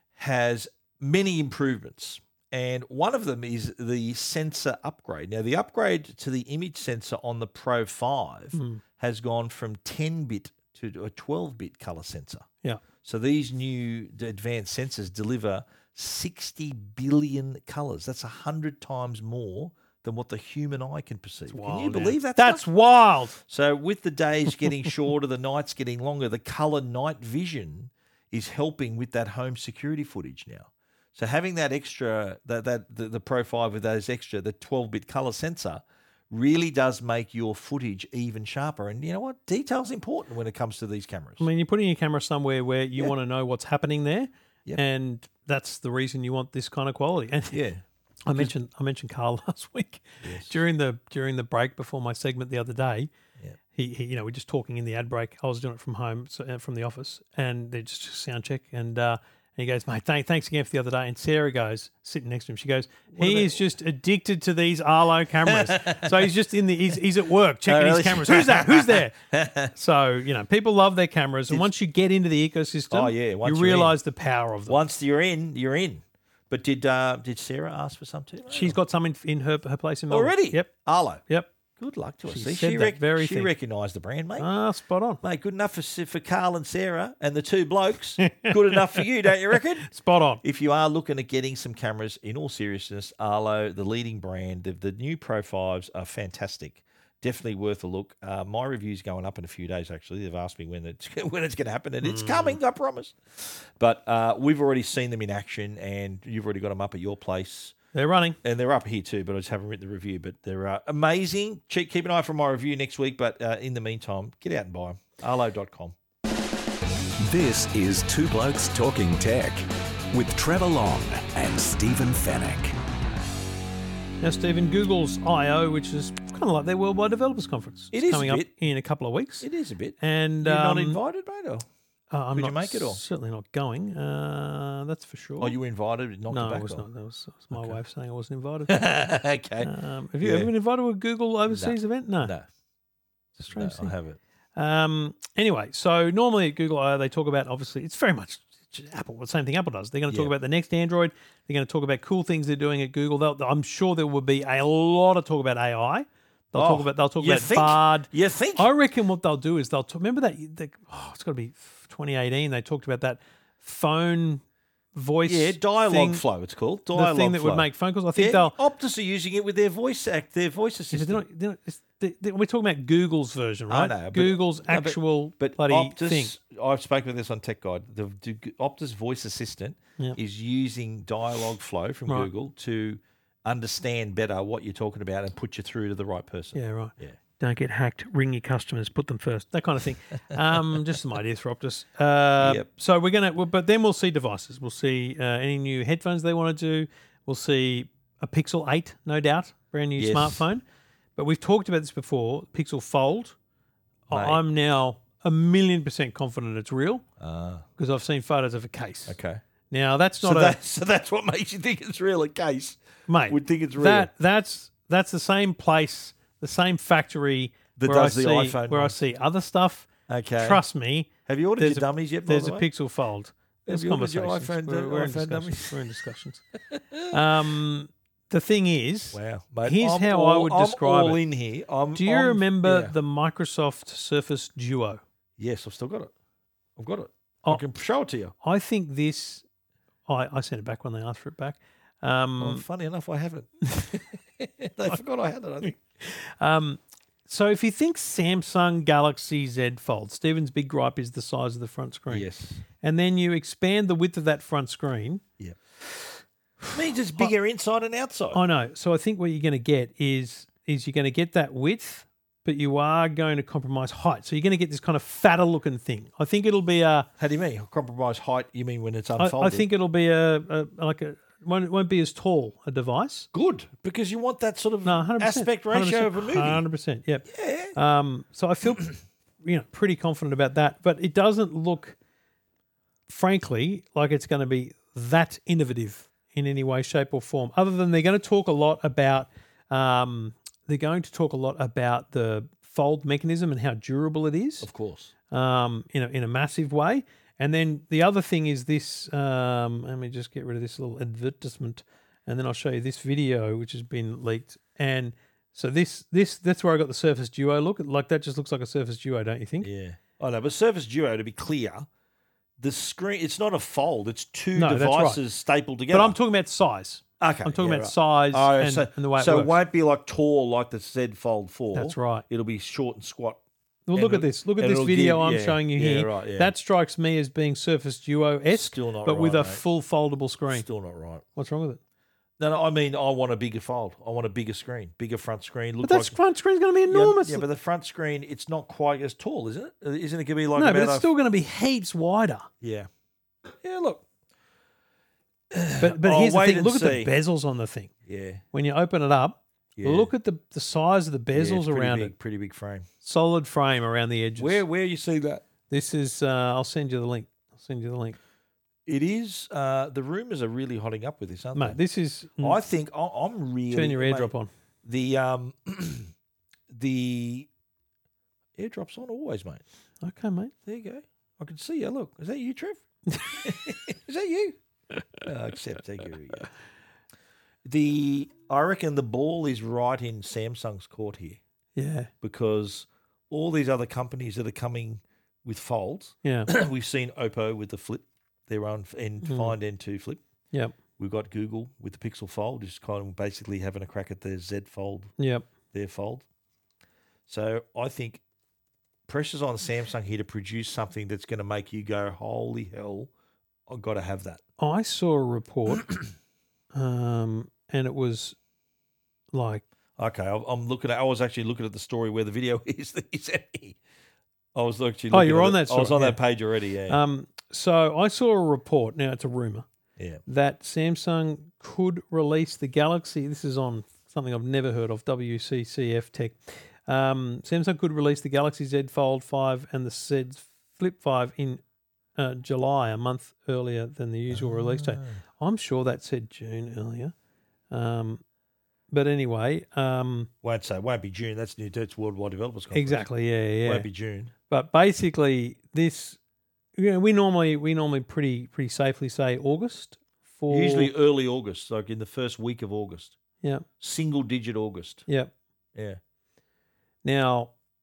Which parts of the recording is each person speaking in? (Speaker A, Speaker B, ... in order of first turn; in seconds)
Speaker A: 0.2-12.5, 13.0-22.7, 23.4-41.5, 47.5-48.5, 50.2-50.5, 63.1-63.6, 65.5-66.3, 67.7-69.7, 72.9-74.0, 74.7-78.8, 80.1-81.2, 81.8-84.5, 85.2-89.9, 90.4-107.8, 108.4-116.0, 127.9-128.5, 129.4-131.7, 132.3-133.0, 135.4-136.9, 137.5-137.8, 138.7-139.7, 140.2-140.5, 141.5-142.5, 143.4-144.2, 156.5-158.7, 165.2-171.2, 173.7-187.2, 192.4-192.7, 200.0-200.5, 204.1-204.4, 207.2-207.7, 209.1-209.4, 210.2-214.1, 217.8-219.0, 220.1-220.6, 221.3-222.7, 223.7-225.9, 226.7-227.2, 229.1-232.9, 235.4-236.1, 236.8-238.3, 242.4-245.8, 252.1-252.6, 256.7-258.4, 267.2-269.7, 273.3-276.6, 277.3-277.8, 294.6-295.1, 309.6-311.9, 312.6-316.2, 317.2-323.4, 323.9-326.5, 328.5-329.6, 330.5-331.2, 332.4-336.2, 336.9-341.1, 342.6-342.9, 343.6-344.1, 345.5-347.1, 348.1-348.4, 349.8-350.1, 351.3-352.9, 354.4-355.5, 358.9-361.8, 362.4-366.1, 366.7-367.5, 368.6-369.6, 370.7-374.6, 375.2-376.5, 377.6-381.4, 382.2-390.2, 391.0-395.1, 395.7-396.2, 397.3-398.2, 399.1-403.1, 403.7-404.4, 410.0-413.8, 414.6-417.0, 420.0-420.2, 434.3-435.2, 440.4-443.1, 443.6-444.3, 450.5-453.2, 453.8-455.1, 455.8-456.0
Speaker B: 8.5-8.8, 21.5-23.4, 41.4-47.6, 48.3-53.1, 53.7-69.2, 69.7-74.8, 78.5-80.7, 82.3-83.5, 84.4-85.2, 88.2-89.0, 89.8-90.4, 102.0-102.6, 107.9-108.4, 124.2-129.5, 130.0-131.0, 132.1-135.6, 136.3-138.9, 139.6-142.3, 143.4-143.9, 144.6-166.2, 166.9-168.6, 170.9-176.3, 186.5-200.6, 201.2-203.3, 204.1-207.1, 207.8-209.2, 209.7-210.6, 213.1-226.4, 227.1-231.2, 231.9-235.0, 238.4-239.4, 240.1-242.7, 246.0-252.3, 252.8-255.2, 258.3-267.1, 269.2-273.3, 274.8-282.0, 283.1-294.7, 295.3-309.7, 314.6-315.2, 315.9-319.6, 321.7-322.2, 323.9-330.7, 331.4-331.8, 335.8-337.4, 340.6-342.5, 345.8-347.9, 348.5-352.1, 353.0-354.6, 355.7-358.2, 361.6-362.6, 363.7-364.5, 370.0-370.5, 373.1-373.5, 381.8-382.1, 386.2-386.5, 389.2-389.6, 395.2-395.5, 404.6-405.9, 406.7-408.4, 409.3-409.6, 415.1-416.2, 416.9-419.7, 420.3-431.6, 432.2-437.1, 437.7-438.2, 438.9-440.3, 442.7-443.9, 444.5-446.2, 446.8-450.9, 455.1-455.3, 457.0-457.5
Speaker C: 117.2-122.8